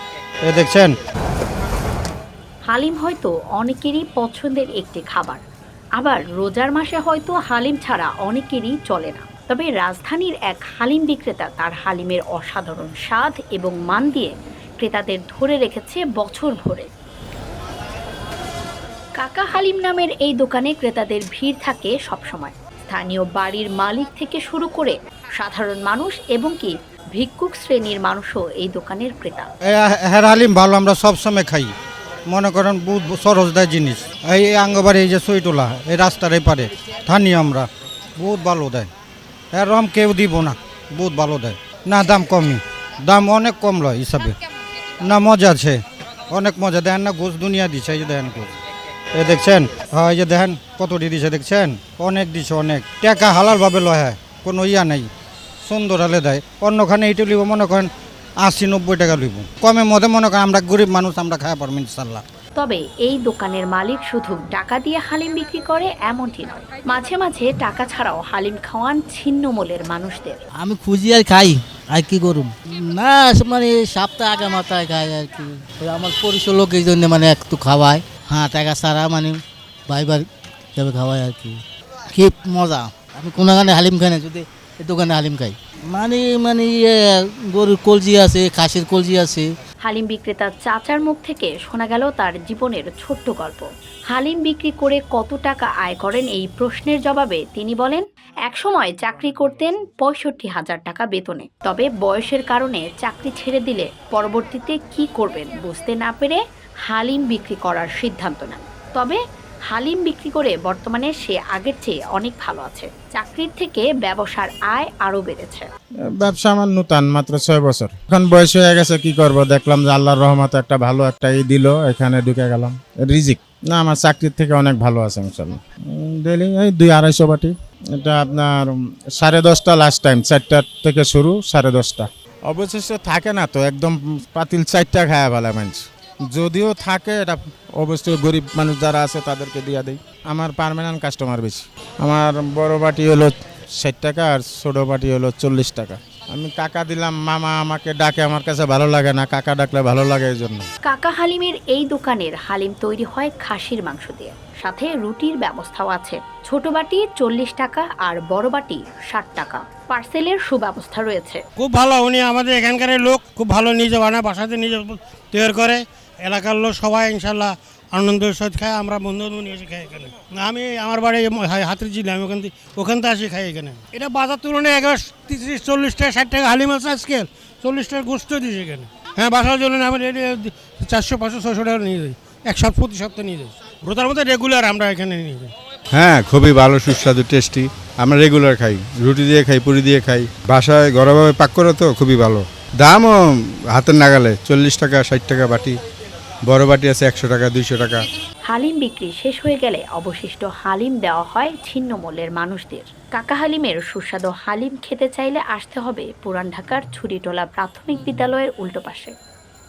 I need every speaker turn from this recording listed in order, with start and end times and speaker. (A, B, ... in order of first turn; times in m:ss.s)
0:00.4-0:01.0 A
0:02.7-0:05.4 B
0:06.0-0:16.9 B
0:19.2-0:29.5 B
0:29.7-0:31.7 A
0:32.3-0:38.9 A
0:39.5-0:44.4 A
0:45.0-0:48.5 A
0:49.1-0:55.1 A
0:55.6-1:02.2 A
1:02.6-1:10.4 B
1:10.6-1:21.6 C
1:22.1-1:29.5 C
1:29.8-1:49.2 B
1:49.7-1:55.7 B
1:56.1-2:30.7 D
2:30.8-2:41.4 B
2:41.6-3:05.5 E
3:05.9-3:13.2 F
3:13.8-3:15.7 F
3:16.5-3:18.0 F
3:18.5-3:29.1 B